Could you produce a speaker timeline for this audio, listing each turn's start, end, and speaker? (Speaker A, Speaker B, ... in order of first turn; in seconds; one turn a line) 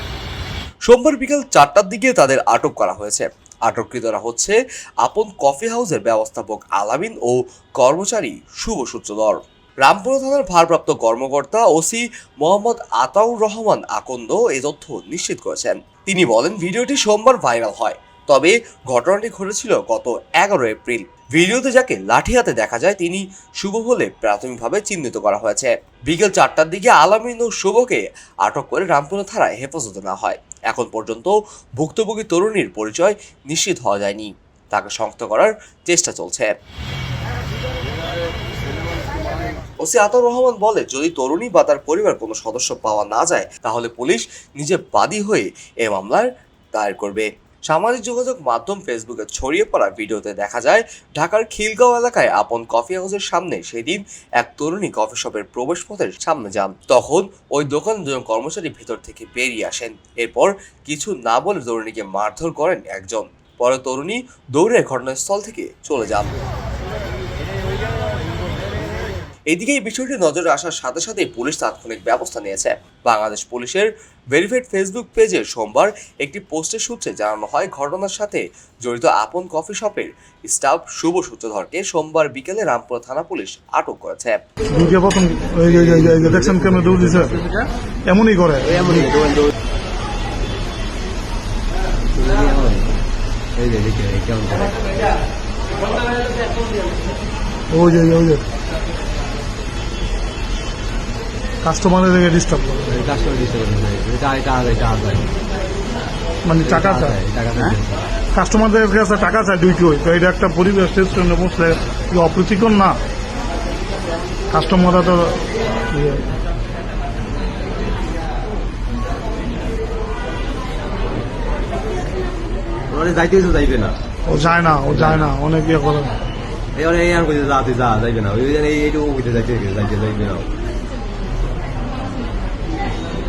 Speaker A: 0.8-36.5
Speaker A: 39.8-66.3
Speaker A: 69.5-84.4
Speaker B: 84.7-87.3
Speaker C: 85.8-87.7
Speaker B: 88.1-89.1
Speaker C: 88.6-89.5
Speaker C: 92.1-92.9
Speaker C: 93.6-94.8
Speaker B: 97.7-98.4
Speaker B: 101.6-102.9
Speaker C: 102.9-105.3
Speaker B: 106.4-107.8
Speaker C: 106.6-108.0
Speaker B: 108.3-113.0
Speaker B: 114.5-116.2
Speaker C: 122.9-124.0
Speaker B: 124.3-126.1
Speaker C: 124.8-125.3
Speaker C: 126.8-130.5